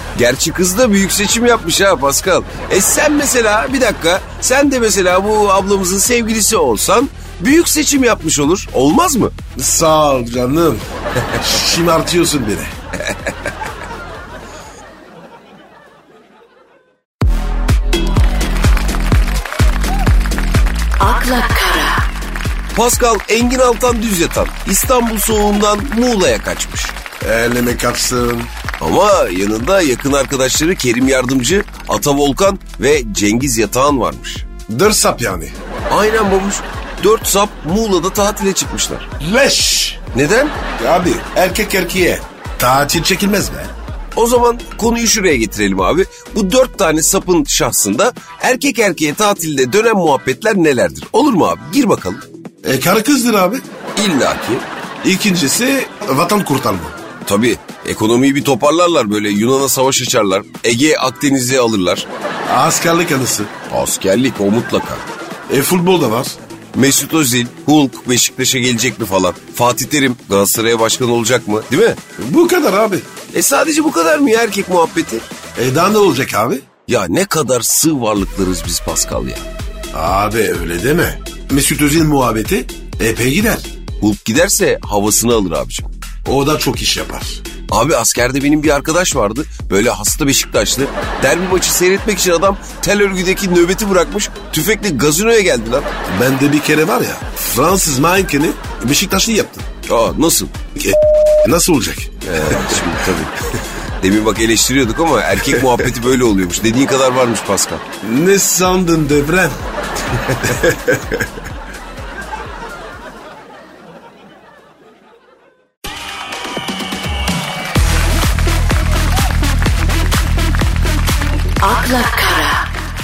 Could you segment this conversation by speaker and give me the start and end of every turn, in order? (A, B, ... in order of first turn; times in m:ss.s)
0:00.1-0:09.3 A
0:09.6-0:10.8 B
0:11.3-0:12.7 B
0:13.0-0:13.3 A
0:21.0-0:22.0 C
0:22.7-0:27.0 A
0:27.2-0:28.5 B
0:28.8-0:34.4 A
0:34.7-0:35.5 B
0:35.9-0:39.1 A
0:39.2-0:40.0 B
0:40.1-0:40.6 A
0:40.8-0:43.7 B
0:44.1-0:52.2 A
0:52.6-0:53.6 B
0:54.0-0:54.6 A
0:55.0-0:57.0 B
0:57.2-1:02.1 A
1:02.4-1:03.5 B
1:03.7-1:05.0 A
1:05.5-1:06.4 B
1:06.7-1:12.0 A
1:12.2-1:13.1 B
1:13.3-1:15.2 A
1:15.6-1:16.6 B
1:16.9-1:19.4 A
1:19.9-1:23.7 B
1:24.0-1:25.9 A
1:26.2-1:27.4 B
1:27.7-1:35.9 A
1:36.1-1:39.6 B
1:39.9-1:40.5 A
1:40.7-1:43.1 B
1:42.2-1:43.4 A
1:44.0-1:47.8 A
1:45.5-1:45.9 B
1:48.0-1:49.6 B
1:50.1-1:50.5 A
1:50.4-1:51.3 B
2:01.6-2:02.6 C